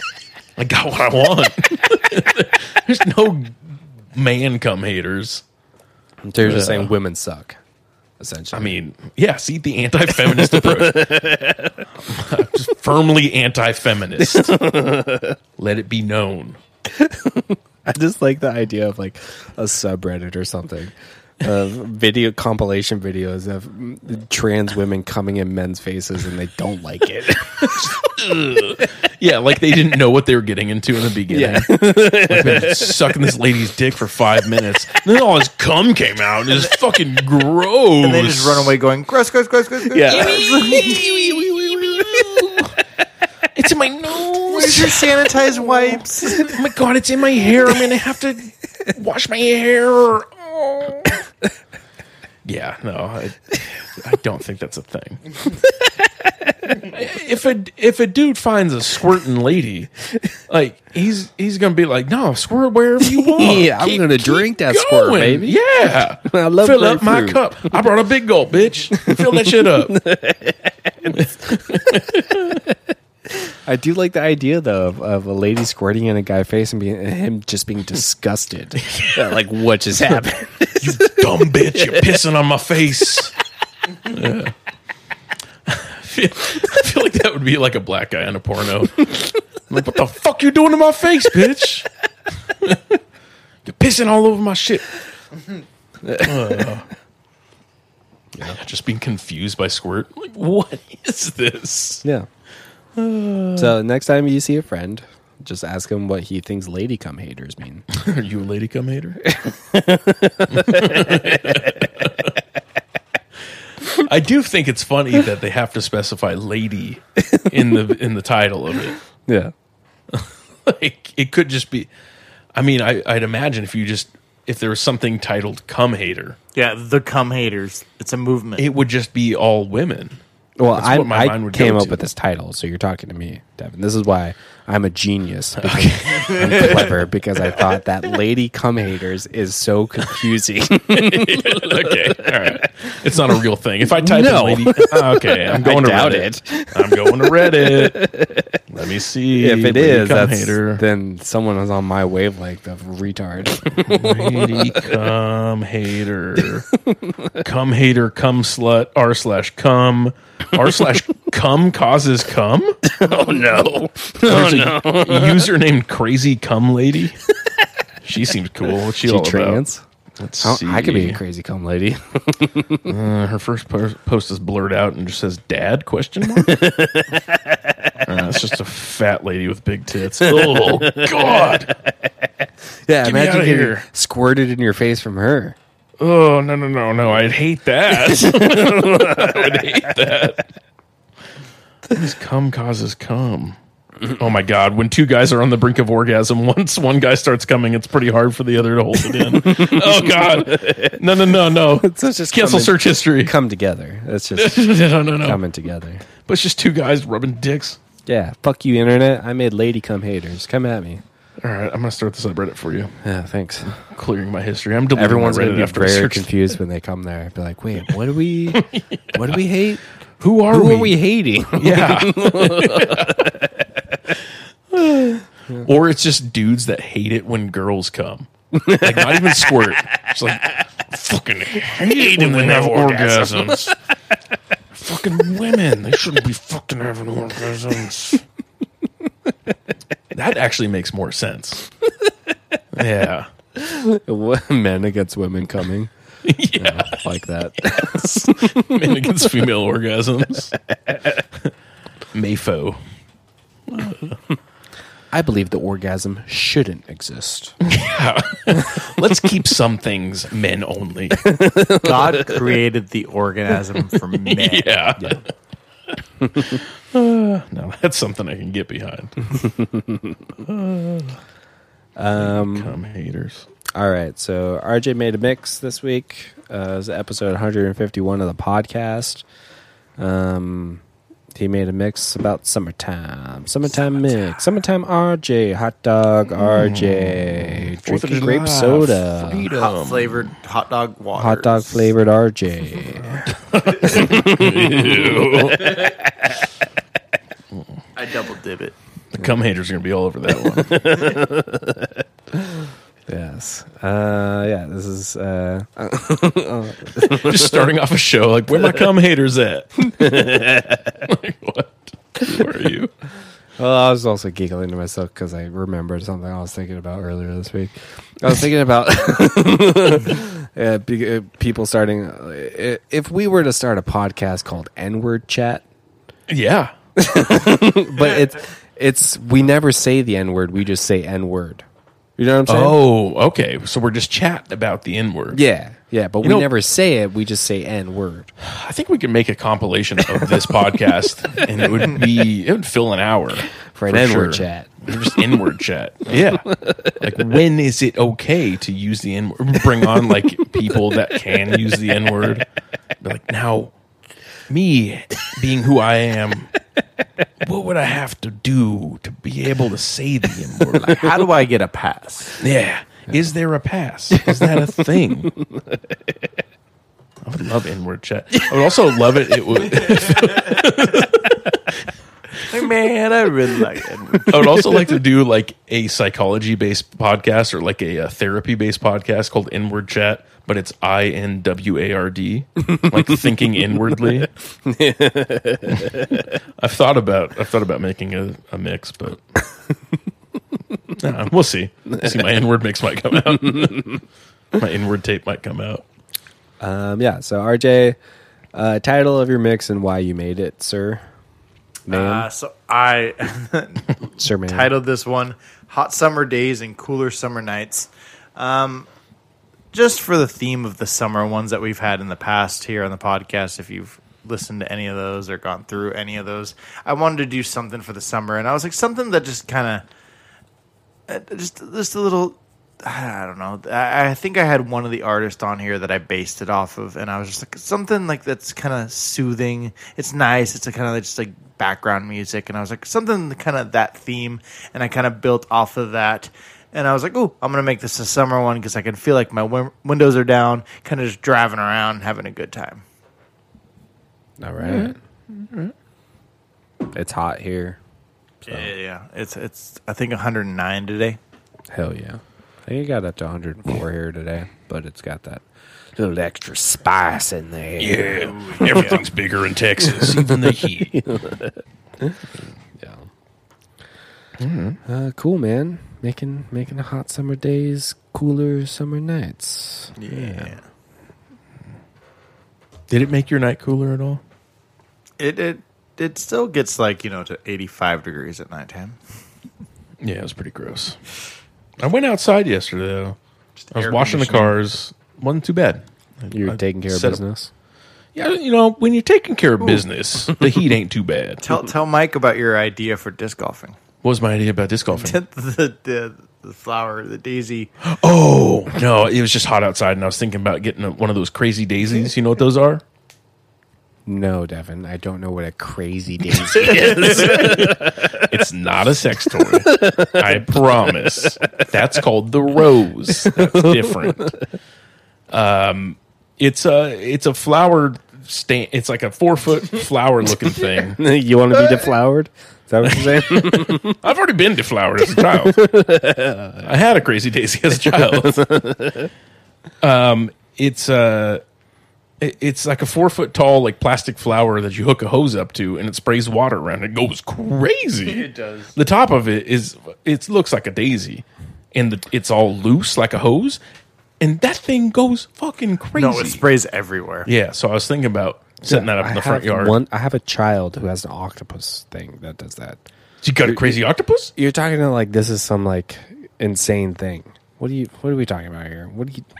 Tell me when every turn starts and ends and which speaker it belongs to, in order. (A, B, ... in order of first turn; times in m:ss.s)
0:00.6-0:05.4 A
0:06.2-0:07.6 B
0:06.4-0:06.9 A
0:08.2-0:08.8 B
0:08.5-0:11.2 A
0:10.2-0:11.8 B
0:11.9-0:14.6 A
0:14.2-0:15.4 B
0:15.6-0:16.6 A
0:16.9-0:28.2 B
0:27.6-0:38.7 A
0:31.3-0:33.1 B
0:38.0-0:41.0 C
0:39.8-0:42.7 B
0:40.0-0:42.7 A
0:43.5-0:45.0 A
0:44.5-0:46.5 C
0:46.4-0:51.2 A
0:52.4-0:55.2 A
0:55.6-0:56.8 B
0:56.8-0:59.9 A
1:00.5-1:10.0 A
1:03.0-1:05.6 B
1:06.2-1:07.8 B
1:08.9-1:11.3 B
1:11.1-1:12.6 A
1:13.4-1:22.2 B
1:18.8-1:19.2 A
1:20.8-1:23.3 A
1:24.0-1:24.5 A
1:25.6-1:29.1 A
1:29.7-1:31.9 A
1:32.5-1:32.9 A
1:33.6-1:34.8 A
1:36.1-1:36.9 A
1:38.5-1:42.0 A
1:43.0-1:43.8 A
1:43.6-1:47.8 B
1:47.9-1:49.3 A
1:49.3-1:51.9 B
1:50.5-1:52.3 A
1:53.9-1:59.0 A
1:59.2-1:59.5 B
2:00.1-2:01.9 A
2:02.5-2:06.4 A
2:06.5-2:08.6 C
2:08.6-2:10.2 A
2:10.6-2:22.9 B
2:10.7-2:12.0 A
2:15.6-2:16.9 A
2:16.4-2:16.7 C
2:20.9-2:28.1 A
2:23.8-2:28.6 B
2:28.7-2:30.8 A
2:29.4-2:34.9 B
2:33.8-2:36.7 A
2:36.7-2:37.4 B
2:37.4-2:42.8 A
2:42.8-2:45.5 B
2:44.2-2:47.2 A
2:48.0-2:49.6 A
2:49.0-2:49.8 B
2:50.2-2:51.2 A
2:50.4-2:52.9 B
2:52.8-2:56.6 A
2:56.3-2:58.0 B
2:58.0-3:01.7 A
3:00.2-3:01.7 B
3:02.8-3:05.6 B
3:03.0-3:03.8 A
3:06.0-3:10.5 A
3:07.9-3:09.9 B
3:11.9-3:13.6 A
3:14.1-3:23.3 A
3:19.0-3:21.0 B
3:21.8-3:26.0 B
3:24.3-3:25.4 A
3:26.2-3:27.8 A
3:28.0-3:31.0 B
3:31.4-3:32.9 A
3:33.0-3:33.8 B
3:33.8-3:36.3 A
3:34.9-3:39.8 B
3:38.5-3:39.4 A
3:40.2-3:41.0 A
3:40.5-3:43.6 B
3:41.5-3:43.3 A
3:44.7-3:53.7 A
3:48.5-3:50.0 B
3:51.6-3:53.7 B
3:54.7-3:58.2 A
4:00.1-4:01.6 A
4:02.7-4:03.3 A
4:03.5-4:05.9 B
4:06.2-4:07.0 A
4:06.6-4:09.1 B
4:07.7-4:10.5 A
4:12.1-4:12.8 A
4:13.7-4:14.2 A
4:15.1-4:17.6 B
4:17.6-4:21.3 A
4:21.2-4:22.4 B
4:21.8-4:24.7 C
4:24.2-4:25.2 A
4:26.2-4:26.5 B
4:26.4-4:29.3 A
4:29.4-4:30.1 B
4:30.4-4:31.2 A
4:32.0-4:32.7 B
4:32.2-4:33.5 A
4:33.7-4:39.2 B
4:40.0-4:40.8 B
4:41.3-4:49.5 B
4:46.4-4:50.3 A
4:49.5-4:51.9 C
4:51.1-4:53.2 B
4:53.1-4:55.9 A
4:53.8-4:56.3 B
4:58.0-4:58.7 C
4:59.1-5:01.2 A
5:00.6-5:07.7 B
5:07.0-5:10.1 A
5:09.9-5:10.9 B
5:10.9-5:12.9 A
5:13.6-5:25.6 B
5:26.3-5:26.7 A
5:27.0-5:31.6 B
5:32.2-5:32.8 B
5:32.4-5:35.4 A
5:35.3-5:38.3 B
5:36.2-5:36.5 A
5:38.4-5:52.4 A
5:41.6-5:41.9 B
5:43.7-5:44.8 B
5:53.0-5:53.7 A
5:54.5-5:56.5 A
5:57.4-6:01.0 A
6:00.8-6:02.4 C
6:02.4-6:05.3 A
6:04.1-6:04.7 B
6:05.4-6:05.8 B
6:07.2-6:11.8 A
6:12.5-6:14.6 C
6:14.3-6:24.3 A
6:24.0-6:26.2 B
6:26.6-6:29.2 A
6:30.9-6:34.0 A
6:34.5-6:35.8 A
6:36.6-6:38.0 B
6:38.5-6:41.0 B
6:41.9-6:42.3 B
6:41.9-6:48.9 C
6:44.2-6:44.7 B
6:49.7-6:59.8 C
7:01.1-7:22.8 C
7:24.4-7:25.0 B
7:24.6-7:25.7 A
7:26.9-7:27.8 B
7:28.4-7:31.2 C
7:31.7-7:35.4 B
7:35.9-7:38.9 B
7:37.8-7:41.0 A
7:38.2-7:39.0 C
7:39.9-7:42.2 B
7:42.8-7:43.1 B
7:44.4-7:44.8 A
7:44.8-7:50.5 B
7:50.0-7:50.6 C
7:52.9-7:54.2 A
7:55.2-7:59.0 C
8:00.0-8:01.0 A
8:01.8-8:03.2 A
8:03.6-8:04.5 C
8:03.7-8:07.2 A
8:06.3-8:07.5 B
8:08.1-8:11.4 A
8:11.4-8:13.8 C
8:14.0-8:15.2 A
8:14.9-8:17.7 C
8:17.8-8:22.8 A
8:24.0-8:28.3 B
8:26.5-8:34.4 A
8:29.4-8:31.5 B
8:33.2-8:34.4 B
8:35.3-8:41.0 A
8:41.0-8:44.0 B
8:42.9-8:45.6 A
8:45.0-8:46.7 B
8:46.6-8:48.4 A
8:47.7-8:49.1 B
8:49.8-8:51.4 A
8:52.2-9:03.6 A
8:58.0-8:58.7 C
9:04.2-9:06.4 A
9:05.9-9:07.3 C
9:07.2-9:09.8 A
9:08.6-9:12.8 B
9:13.2-9:14.3 A
9:13.4-9:13.8 B
9:14.4-9:19.2 B